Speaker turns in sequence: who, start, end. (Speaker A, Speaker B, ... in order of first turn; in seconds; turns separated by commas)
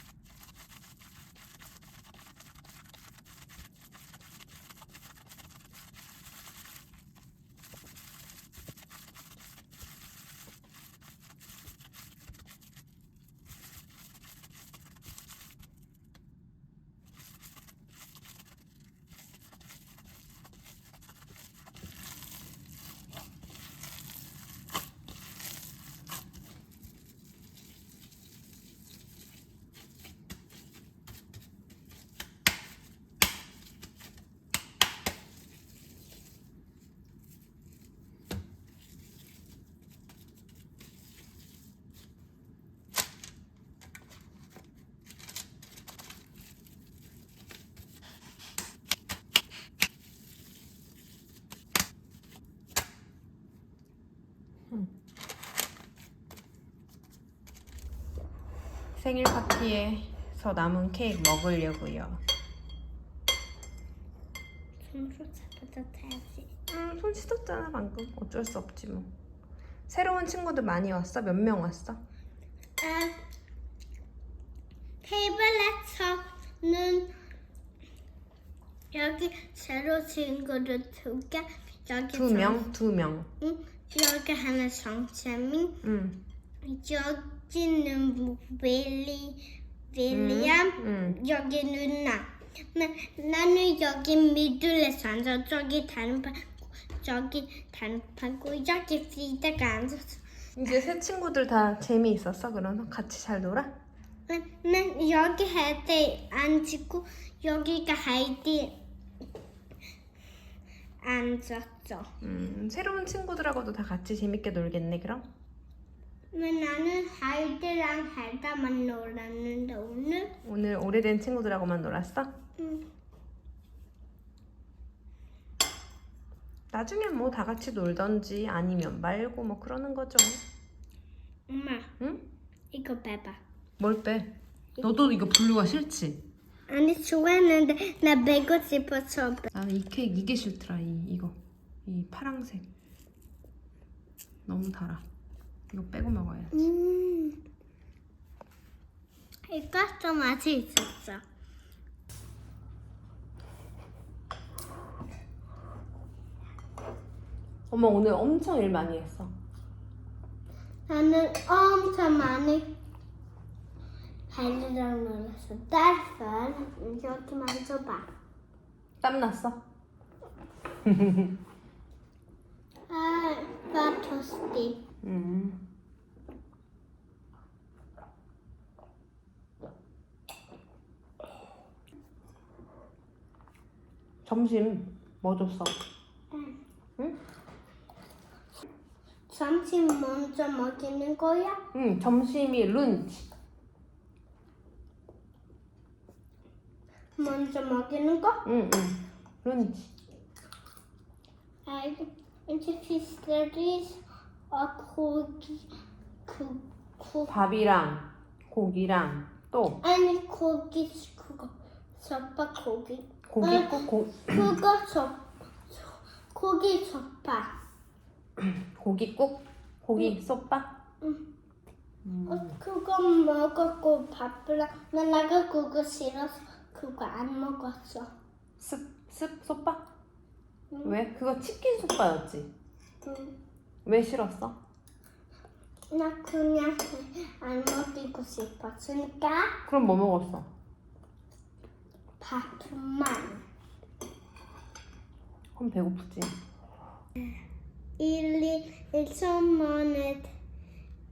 Speaker A: 59.0-62.2, Speaker B: 64.8-66.5, Speaker A: 66.7-69.1, Speaker A: 69.9-72.0, Speaker B: 72.8-73.2, Speaker B: 75.0-77.1, Speaker B: 78.9-82.7, Speaker A: 82.1-83.3, Speaker B: 83.4-85.8, Speaker A: 85.8-86.2, Speaker B: 86.6-100.2, Speaker A: 90.1-91.2, Speaker A: 100.5-103.7, Speaker B: 104.3-108.8, Speaker B: 111.0-112.1, Speaker A: 112.2-115.2, Speaker B: 116.3-120.3, Speaker A: 120.4-122.3, Speaker B: 122.6-122.8, Speaker A: 126.7-130.4, Speaker B: 131.5-131.9, Speaker B: 132.7-133.4, Speaker A: 133.8-136.2, Speaker B: 136.7-139.5, Speaker A: 139.5-142.7, Speaker A: 144.4-145.0, Speaker A: 145.7-146.6, Speaker B: 146.5-147.4, Speaker B: 149.5-151.2, Speaker A: 157.7-159.3, Speaker B: 160.9-162.7, Speaker B: 164.3-168.1, Speaker A: 169.0-169.6, Speaker A: 170.8-171.3, Speaker B: 172.9-174.8, Speaker A: 175.0-175.6, Speaker A: 184.2-185.8, Speaker B: 186.3-186.6, Speaker B: 189.3-191.6, Speaker A: 191.7-193.3, Speaker B: 197.2-198.4, Speaker A: 198.4-199.9, Speaker B: 201.7-204.0, Speaker B: 204.5-205.7, Speaker B: 206.2-207.4, Speaker A: 207.3-209.8, Speaker B: 209.8-217.5, Speaker A: 213.3-214.5, Speaker A: 218.4-220.8, Speaker A: 222.0-222.6, Speaker B: 222.3-228.1, Speaker A: 228.6-229.9, Speaker A: 230.8-232.5, Speaker B: 233.0-233.3, Speaker A: 233.8-234.6, Speaker B: 235.9-239.6, Speaker A: 239.7-240.5, Speaker B: 242.2-243.4, Speaker A: 245.6-246.4, Speaker B: 248.0-250.3